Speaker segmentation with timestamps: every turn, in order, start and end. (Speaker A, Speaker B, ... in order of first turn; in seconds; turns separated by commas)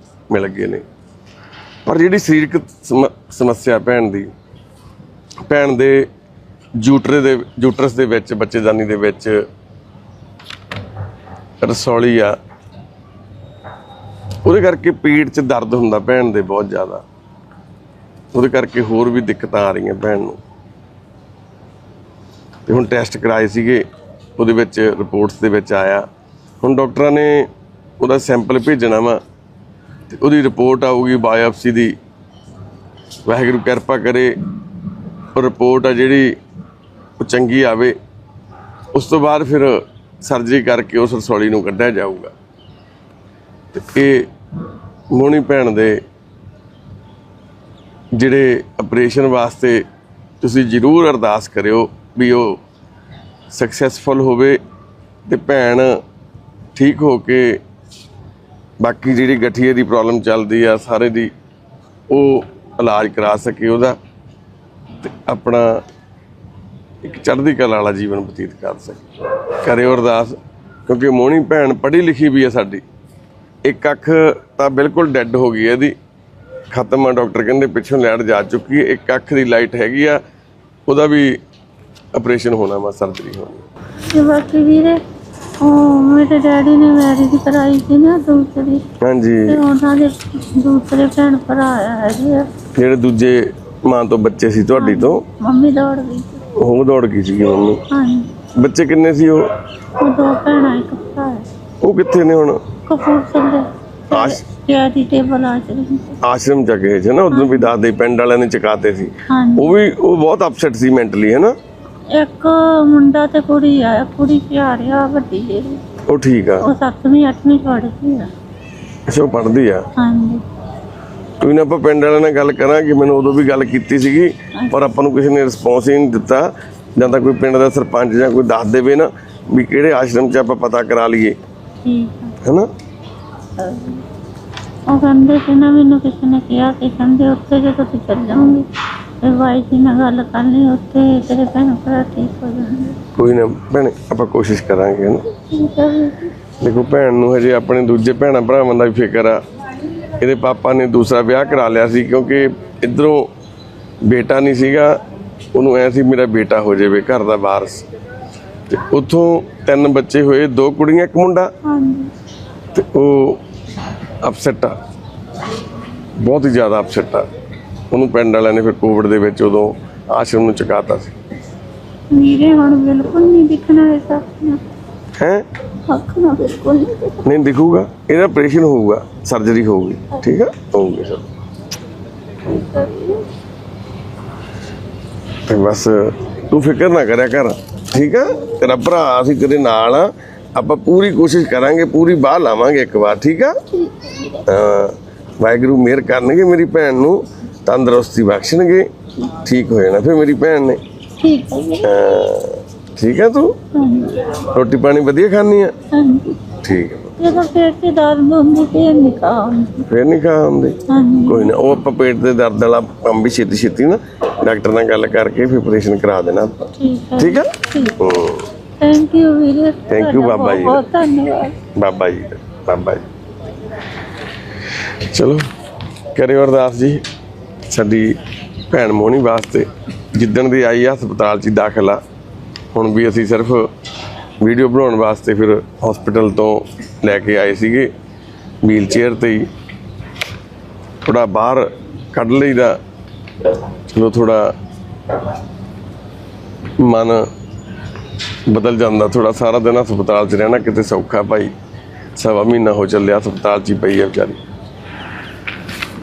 Speaker A: 0.3-0.8, Speaker A: 1.9-4.3, Speaker A: 5.5-6.1, Speaker A: 6.8-9.4, Speaker A: 11.6-12.4, Speaker A: 14.4-17.0, Speaker A: 18.3-20.4, Speaker A: 22.7-23.8, Speaker A: 24.4-26.1, Speaker A: 26.6-27.5, Speaker A: 28.0-29.2, Speaker A: 30.1-31.9, Speaker A: 33.3-34.3, Speaker A: 35.3-36.4, Speaker A: 37.2-38.0, Speaker A: 38.9-42.3, Speaker A: 43.7-44.3, Speaker A: 45.1-46.0, Speaker A: 48.1-49.8, Speaker A: 50.4-52.6, Speaker A: 53.5-54.6, Speaker A: 55.3-55.9, Speaker A: 56.8-57.6, Speaker A: 58.8-61.3, Speaker A: 62.1-64.0, Speaker A: 65.0-65.8, Speaker A: 67.0-72.8, Speaker A: 73.7-76.0, Speaker A: 76.7-80.2, Speaker A: 80.9-81.4, Speaker A: 82.1-83.7, Speaker B: 84.1-85.0, Speaker B: 85.6-88.8, Speaker A: 89.0-89.6, Speaker B: 89.5-92.5, Speaker A: 92.8-95.2, Speaker B: 94.8-96.4, Speaker A: 96.6-97.8, Speaker B: 97.9-98.3, Speaker A: 98.5-99.5, Speaker B: 100.0-101.5, Speaker A: 101.8-102.6, Speaker B: 102.9-106.2, Speaker A: 104.1-104.4, Speaker A: 106.2-111.5, Speaker B: 107.3-107.7, Speaker B: 109.3-109.8, Speaker B: 112.1-115.8, Speaker A: 116.1-116.7, Speaker B: 116.6-118.3, Speaker A: 119.1-119.8, Speaker B: 120.0-120.4, Speaker A: 121.4-131.4, Speaker B: 131.8-132.4, Speaker A: 132.4-132.7, Speaker B: 133.6-134.0, Speaker B: 134.9-138.7, Speaker B: 139.2-143.0, Speaker A: 143.2-145.3, Speaker B: 145.5-146.3, Speaker A: 146.6-149.4, Speaker A: 150.2-153.3, Speaker A: 154.1-155.0, Speaker A: 155.5-157.9, Speaker A: 158.7-161.5, Speaker B: 161.7-162.1, Speaker A: 162.7-163.4, Speaker A: 164.2-164.7, Speaker A: 166.2-167.3, Speaker A: 167.9-171.2, Speaker B: 172.1-174.6, Speaker A: 175.2-175.4, Speaker B: 175.9-177.2, Speaker A: 177.2-181.3, Speaker B: 182.5-183.3, Speaker A: 185.5-193.6, Speaker B: 193.8-194.4, Speaker A: 194.4-200.8, Speaker B: 201.2-201.9, Speaker A: 201.8-203.6, Speaker B: 203.7-204.3, Speaker A: 204.4-205.7, Speaker B: 205.9-206.4, Speaker A: 206.6-207.2, Speaker B: 207.2-209.8, Speaker A: 209.9-218.4, Speaker B: 210.9-211.6, Speaker B: 216.8-218.0, Speaker B: 218.8-221.6, Speaker A: 219.9-220.8, Speaker A: 221.8-223.0, Speaker A: 225.1-225.4, Speaker A: 226.1-227.0, Speaker A: 227.7-228.2, Speaker A: 228.7-232.0, Speaker A: 232.7-233.7, Speaker A: 234.4-237.9, Speaker A: 238.6-239.5, Speaker A: 241.1-242.8, Speaker A: 243.9-244.5, Speaker A: 246.8-247.3, Speaker A: 248.5-251.5, Speaker A: 252.2-254.4